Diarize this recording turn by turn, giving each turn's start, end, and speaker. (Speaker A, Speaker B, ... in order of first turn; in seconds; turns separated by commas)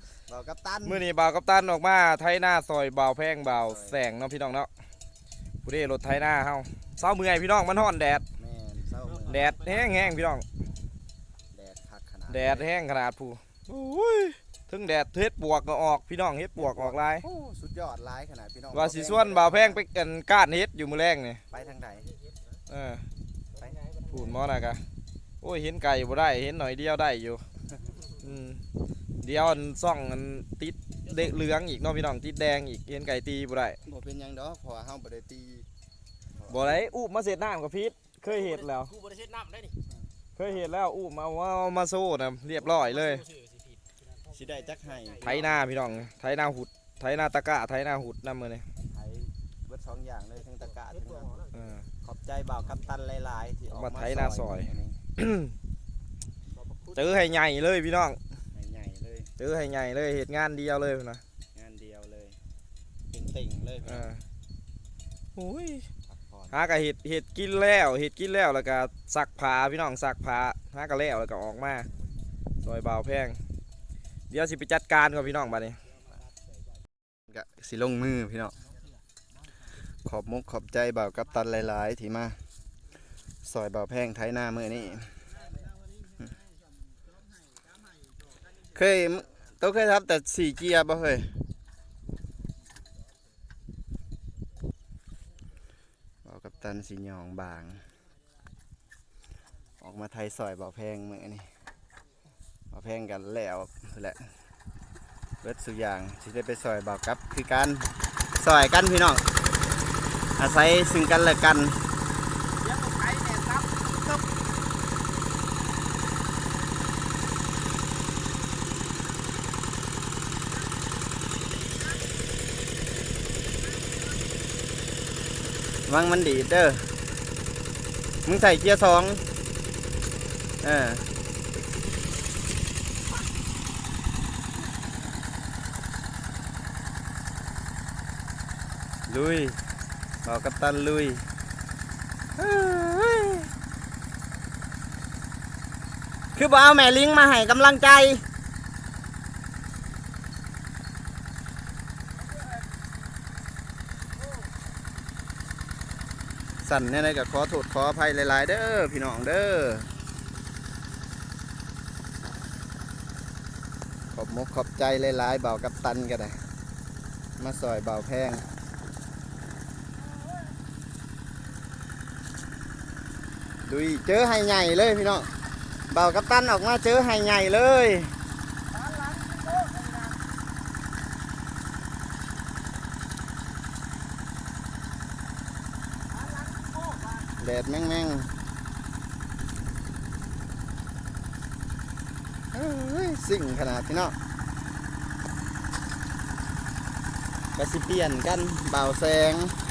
Speaker A: 0.3-1.1, Speaker B: 0.8-4.7, Speaker A: 3.6-4.0, Speaker B: 5.6-8.2, Speaker A: 8.4-9.7, Speaker B: 9.3-10.4, Speaker A: 11.5-12.7, Speaker B: 12.3-17.2, Speaker A: 16.6-19.8, Speaker B: 18.7-21.4, Speaker A: 21.5-22.1, Speaker B: 22.7-23.1, Speaker C: 23.7-24.1, Speaker B: 24.1-24.8, Speaker B: 25.4-27.4, Speaker B: 28.2-28.6, Speaker B: 29.2-33.8, Speaker A: 33.8-35.7, Speaker A: 36.4-36.8, Speaker B: 36.5-39.0, Speaker C: 38.6-39.7, Speaker B: 40.4-43.3, Speaker C: 43.1-43.7, Speaker A: 44.3-45.6, Speaker B: 45.2-48.6, Speaker A: 48.9-51.5, Speaker B: 51.5-51.9, Speaker A: 52.0-55.0, Speaker B: 53.7-55.5, Speaker A: 56.8-57.2, Speaker B: 56.9-58.2, Speaker A: 58.5-59.3, Speaker B: 59.4-61.2, Speaker A: 61.5-62.4, Speaker A: 63.1-64.1, Speaker B: 63.9-64.2, Speaker B: 65.3-65.8, Speaker A: 66.1-66.6, Speaker B: 66.5-71.8, Speaker B: 72.6-73.4, Speaker B: 74.3-75.8, Speaker A: 77.3-78.5, Speaker A: 80.0-82.4, Speaker A: 83.4-85.2, Speaker A: 88.7-91.3, Speaker A: 96.2-97.8, Speaker A: 99.8-101.5, Speaker A: 102.7-104.2, Speaker A: 105.4-109.2, Speaker A: 110.4-111.8, Speaker B: 112.6-114.2, Speaker A: 125.9-126.9, Speaker A: 128.2-129.2, Speaker A: 130.6-131.1, Speaker A: 139.1-139.6, Speaker A: 140.2-141.2, Speaker A: 142.4-143.5, Speaker A: 146.4-148.2, Speaker A: 156.6-159.9, Speaker A: 164.1-166.4, Speaker A: 167.4-168.4, Speaker A: 173.7-175.3, Speaker A: 175.9-178.1, Speaker B: 178.7-180.2, Speaker C: 179.0-179.9, Speaker B: 186.2-187.1, Speaker C: 186.3-187.2, Speaker A: 187.4-188.3, Speaker A: 192.5-194.2, Speaker A: 197.6-199.6